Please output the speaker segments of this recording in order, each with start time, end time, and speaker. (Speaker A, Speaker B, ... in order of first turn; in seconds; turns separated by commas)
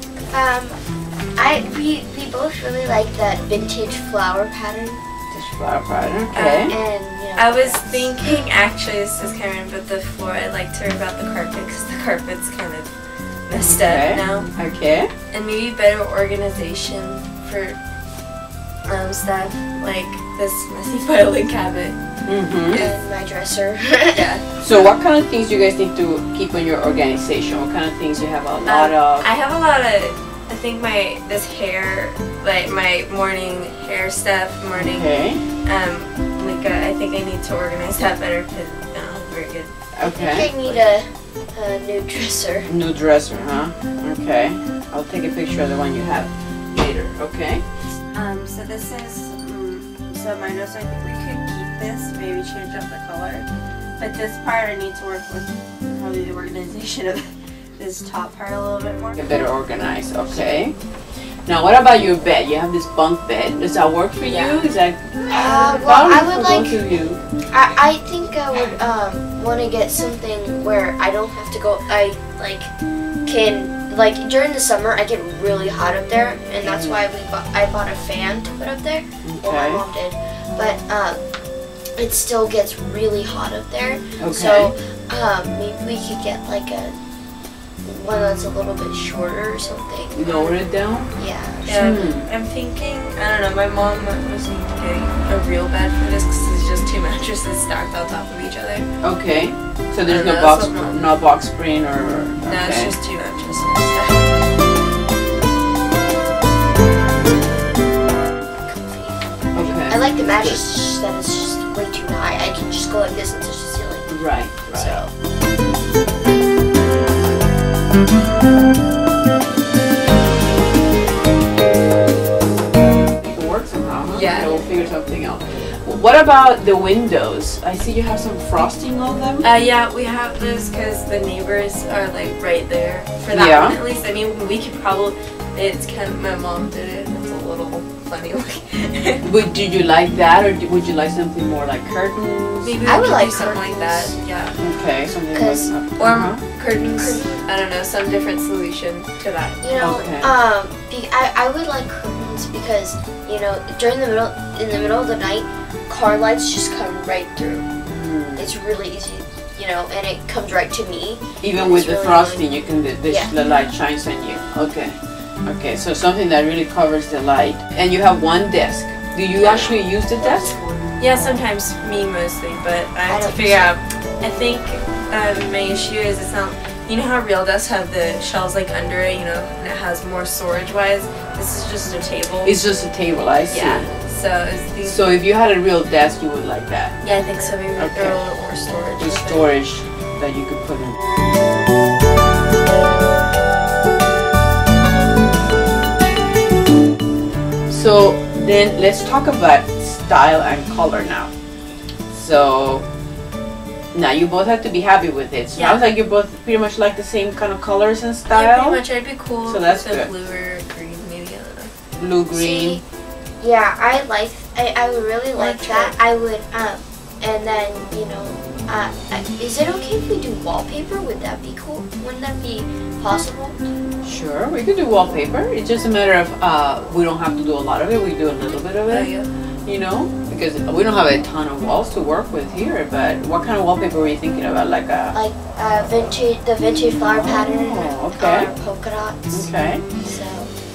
Speaker A: 0.3-0.8, Speaker A: 1.4-5.0, Speaker B: 5.3-6.8, Speaker C: 6.3-6.8, Speaker A: 6.7-8.3, Speaker C: 7.4-12.9, Speaker C: 13.5-14.5, Speaker B: 13.6-15.1, Speaker C: 15.3-17.8, Speaker C: 18.9-22.0, Speaker B: 22.3-22.9, Speaker C: 22.6-22.9, Speaker A: 22.7-24.3, Speaker C: 24.1-24.5, Speaker B: 24.6-29.3, Speaker C: 28.7-35.1, Speaker B: 34.7-35.4, Speaker C: 35.6-39.7, Speaker B: 40.0-40.5, Speaker A: 40.1-42.7, Speaker C: 40.4-40.9, Speaker B: 42.7-47.6, Speaker C: 48.1-53.5, Speaker C: 54.0-57.3, Speaker C: 57.8-59.1, Speaker B: 59.2-60.8, Speaker B: 61.5-65.2, Speaker C: 64.2-64.7, Speaker A: 65.3-66.8, Speaker C: 65.3-66.2, Speaker B: 65.7-67.2, Speaker A: 67.5-72.7, Speaker A: 73.3-81.2, Speaker B: 76.6-77.0, Speaker B: 79.2-79.8, Speaker A: 82.0-87.0, Speaker B: 84.2-84.7, Speaker A: 87.8-90.3, Speaker B: 90.1-91.1, Speaker A: 91.2-91.9, Speaker C: 91.7-98.9, Speaker B: 91.7-92.3, Speaker B: 99.0-103.0, Speaker C: 100.0-101.1, Speaker C: 102.5-104.3, Speaker A: 108.7-115.1, Speaker B: 109.5-110.6, Speaker B: 114.1-115.0, Speaker B: 123.2-129.5, Speaker C: 124.1-124.7, Speaker C: 129.4-139.2, Speaker B: 133.3-133.8, Speaker B: 139.2-142.8, Speaker C: 142.6-144.6, Speaker A: 142.8-144.2, Speaker B: 144.6-146.4, Speaker A: 145.3-145.7, Speaker C: 146.0-149.7, Speaker A: 146.8-147.4, Speaker A: 149.6-157.7, Speaker B: 149.8-150.3, Speaker B: 157.9-158.5, Speaker A: 158.4-163.3, Speaker B: 161.4-170.7, Speaker C: 169.3-169.8, Speaker C: 171.0-182.6, Speaker A: 173.1-173.7, Speaker B: 182.4-183.9, Speaker C: 183.5-185.2, Speaker B: 184.8-187.0, Speaker C: 187.0-189.5, Speaker B: 187.8-188.2, Speaker B: 189.0-191.0, Speaker B: 197.7-201.3, Speaker B: 202.1-202.9, Speaker B: 203.9-208.8, Speaker C: 205.6-205.9, Speaker C: 208.3-211.7, Speaker B: 209.5-210.1, Speaker B: 211.9-212.8, Speaker A: 212.3-212.8, Speaker A: 213.4-223.6, Speaker C: 215.4-215.9, Speaker B: 224.0-229.1, Speaker C: 228.9-229.3, Speaker B: 229.7-235.2, Speaker A: 235.1-239.5, Speaker B: 237.0-238.5, Speaker B: 239.3-239.9, Speaker A: 240.0-240.5